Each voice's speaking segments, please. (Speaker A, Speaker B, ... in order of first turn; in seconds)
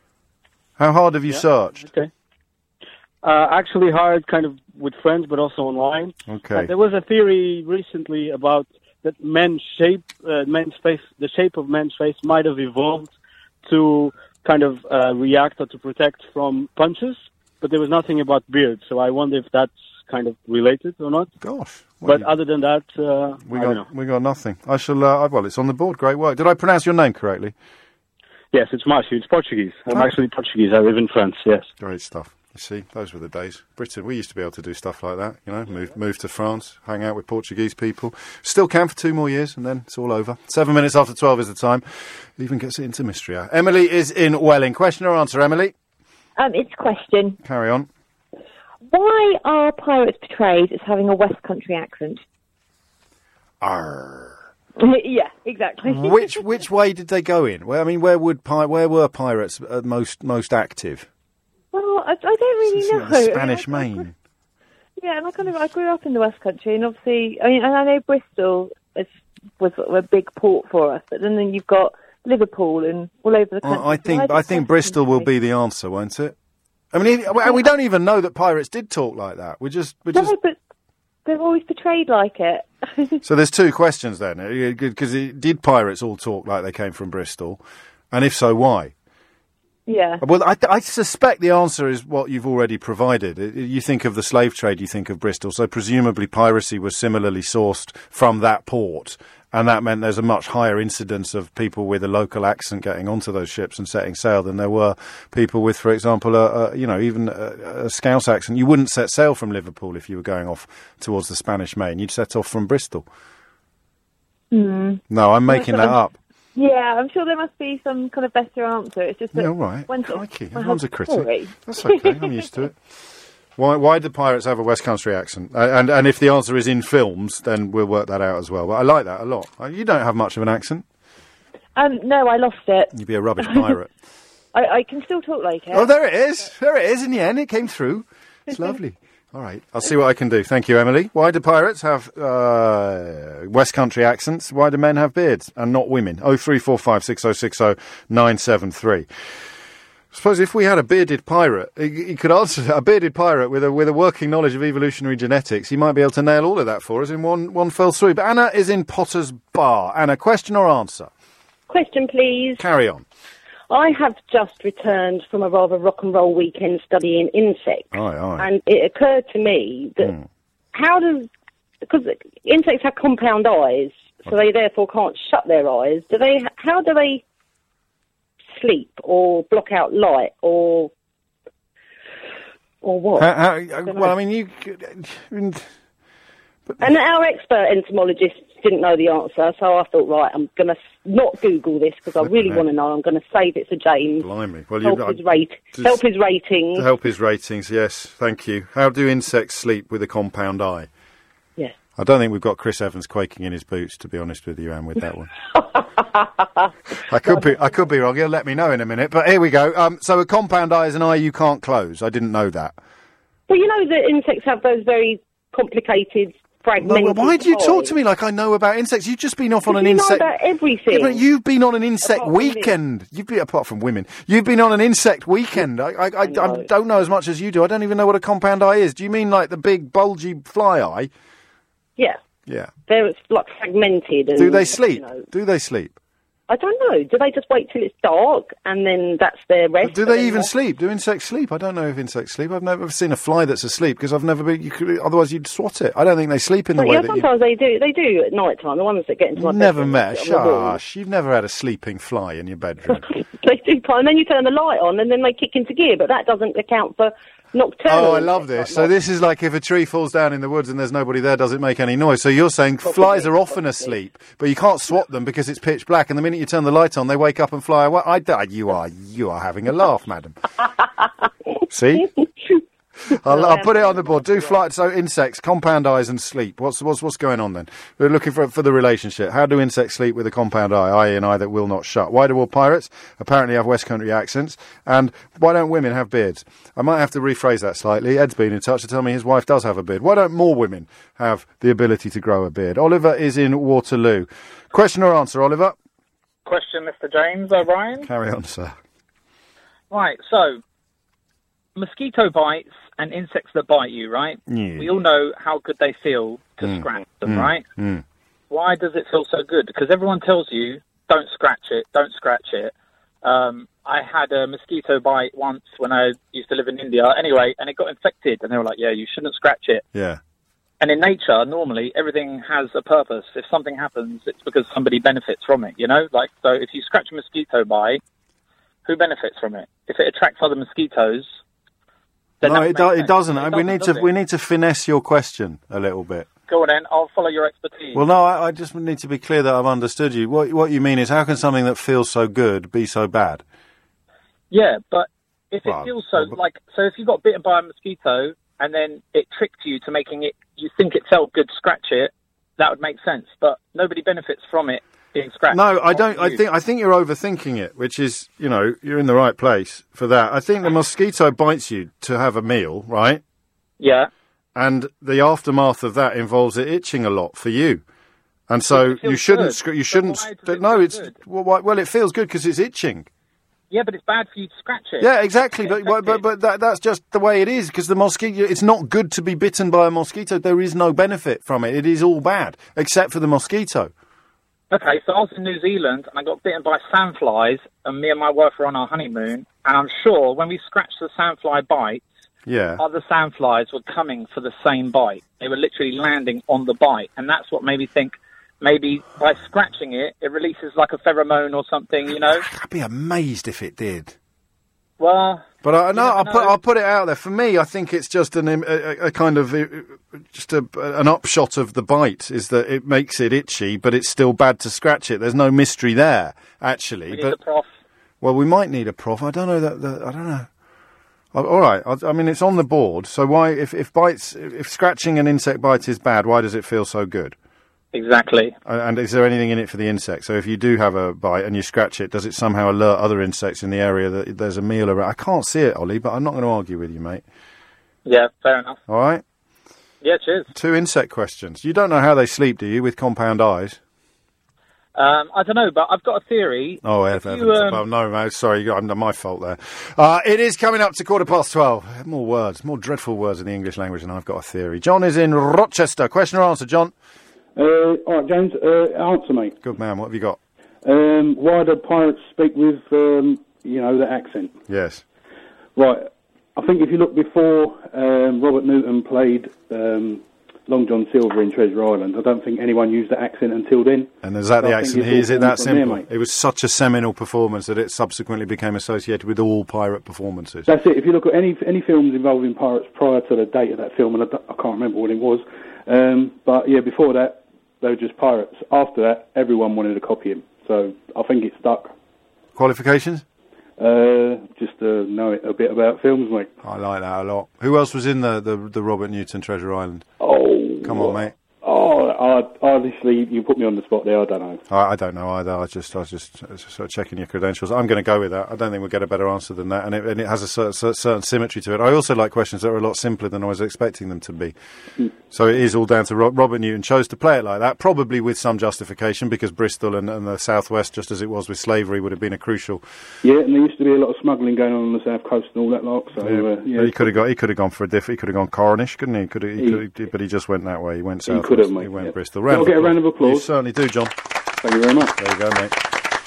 Speaker A: 0.8-1.9, 6.3-6.7, 21.4-22.3, 23.5-27.5, 31.8-45.8, 47.4-47.9, 53.6-54.4, 55.8-61.1, 62.6-64.1, 73.6-76.3, 76.9-80.3, 83.2-87.6, 88.1-88.9, 90.2-113.1, 115.1-116.2, 119.3-122.8, 123.6-130.8, 132.9-133.9, 135.7-149.1, 150.1-161.1, 162.6-163.1, 167.9-168.5, 183.2-185.7, 192.2-192.6, 194.2-195.2, 195.7-196.0, 196.8-200.9, 202.0-205.4, 207.0-212.8, 216.8-220.3, 220.9-231.1, 234.4-236.0, 239.8-247.2, 249.4-253.0, 257.9-270.4, 271.7-272.1, 273.1-295.8, 298.0-298.8, 304.5-304.9, 306.6-308.0, 319.9-320.2, 332.4-336.3, 337.9-343.4, 345.6-346.4, 355.5-363.2, 364.6-367.8, 368.5-373.1, 375.0-383.9, 392.5-392.8, 402.4-404.1, 405.6-417.4, 418.2-420.5, 421.3-427.4, 428.6-437.2, 438.9-439.2, 440.5-443.8, 446.8-456.9, 459.6-460.4, 464.7-465.0, 474.2-480.7, 492.6-493.2, 496.6-500.1, 500.8-501.3, 504.7-514.5, 515.3-522.8, 526.2-534.1, 535.2-535.8
Speaker B: 1.3-2.1, 3.2-21.3, 22.0-23.9, 28.5-31.7
Speaker C: 46.4-47.4, 48.9-52.2, 54.8-56.6, 61.7-64.1, 65.0-75.3, 77.4-77.7, 80.1-80.6, 81.2-83.2, 89.9-90.2, 114.5-116.0, 116.5-122.5, 131.8-133.8, 134.5-135.9
Speaker D: 161.7-162.6, 163.7-170.1, 170.7-171.3, 171.8-177.2, 178.5-180.9, 182.8-183.3, 183.9-184.1, 186.8-194.3, 194.8-196.8, 213.5-217.9, 219.7-221.2, 222.0-222.7, 226.2-226.7, 232.9-235.2, 236.5-240.5, 246.8-250.8, 252.9-258.9, 262.9-263.9, 273.3-274.6
Speaker E: 296.5-298.1, 299.9-300.6, 301.8-307.6, 308.5-319.8, 320.8-328.0, 328.9-331.4, 332.4-334.1, 336.5-338.0, 344.5-356.4, 363.8-364.1, 368.7-371.1, 373.7-375.1, 375.6-376.2, 384.7-392.0, 392.8-402.5, 405.0-406.6, 417.1-417.7, 427.9-428.5, 438.1-438.8, 440.0-440.5, 445.0-447.8
Speaker F: 457.6-459.6, 460.8-464.6, 465.8-476.1, 480.7-491.9, 493.8-496.5, 500.2-504.6, 523.2-527.2, 529.6-529.8, 531.3-533.5, 534.6-535.1